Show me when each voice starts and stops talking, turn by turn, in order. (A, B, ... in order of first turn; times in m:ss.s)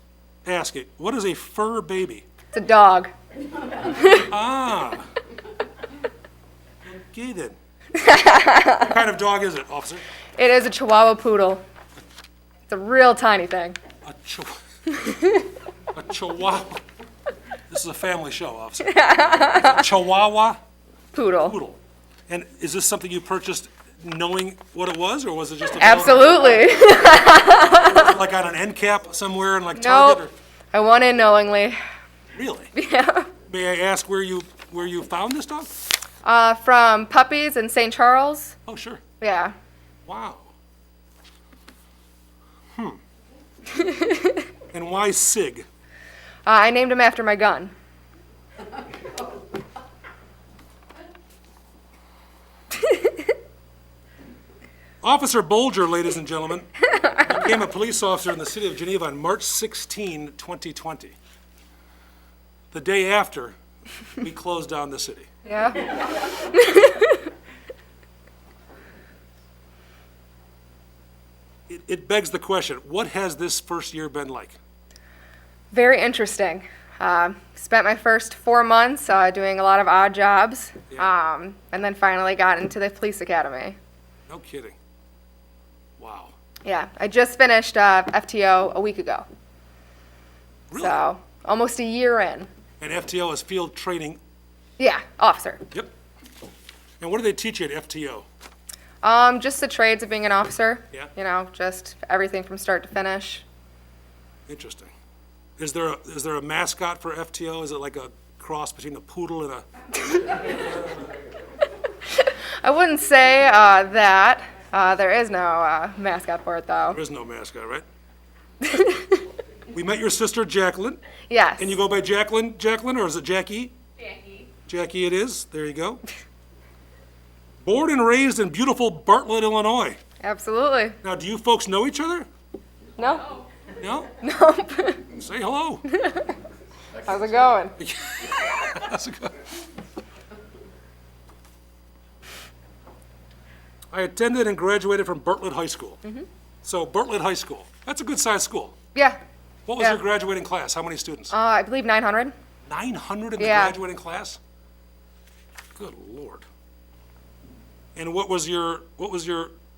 0:00.4-0:02.3 A
0:02.5-0:03.1 B
0:03.9-0:04.3 B
0:04.0-0:05.1 A
0:06.8-0:07.6 A
0:08.0-0:08.9 B
0:08.7-0:10.0 A
0:10.4-0:11.6 B
0:12.7-0:13.8 B
0:14.0-0:14.6 A
0:15.0-0:15.4 B
0:15.9-0:16.8 A
0:17.7-0:20.6 A
0:18.8-0:19.8 B
0:21.1-0:21.6 B
0:21.4-0:26.7 A
0:25.8-0:28.1 B
0:27.7-0:30.3 A
0:29.8-0:31.8 B
0:32.3-0:32.7 A
0:32.8-0:33.3 B
0:33.5-0:35.7 A
0:36.2-0:38.6 B
0:38.7-0:39.0 A
0:39.2-0:39.5 B
0:40.0-0:40.5 A
0:43.8-0:44.2 B
0:44.7-0:45.7 A
0:46.5-0:47.7 B
0:55.0-1:01.1 A
1:02.7-1:03.6 A
1:04.2-1:05.3 A
1:05.4-1:07.2 B
1:11.7-1:14.6 A
1:15.7-1:23.8 B
1:24.3-1:24.8 A
1:26.0-1:26.3 A
1:26.6-1:29.2 B
1:30.7-1:31.0 A
1:30.8-1:32.5 B
1:32.8-1:34.2 A
1:34.8-1:35.6 B
1:37.0-1:38.2 A
1:39.0-1:43.4 B
1:44.5-1:44.9 A
1:45.6-1:49.6 A
1:52.1-1:57.0 B
1:56.9-1:57.8 A
1:58.6-1:59.2 B
1:59.7-2:01.0 A
2:01.3-2:01.7 B
2:01.6-2:03.8 A
2:04.7-2:06.0 A
2:07.6-2:10.0 A
2:10.2-2:11.0 B
2:11.0-2:12.3 A
2:13.0-2:13.4 B
2:13.8-2:14.2 A
2:14.2-2:15.1 B
2:15.1-2:15.8 A
2:15.9-2:16.4 B
2:17.0-2:17.8 B
2:17.8-2:19.4 A
2:23.9-2:26.0 A
2:26.6-2:28.8 A
2:28.9-2:29.2 B
2:29.7-2:31.3 A
2:31.3-2:32.3 B
2:32.7-2:34.4 A
2:33.4-2:33.8 B
2:35.8-2:36.4 A
2:37.9-2:39.5 A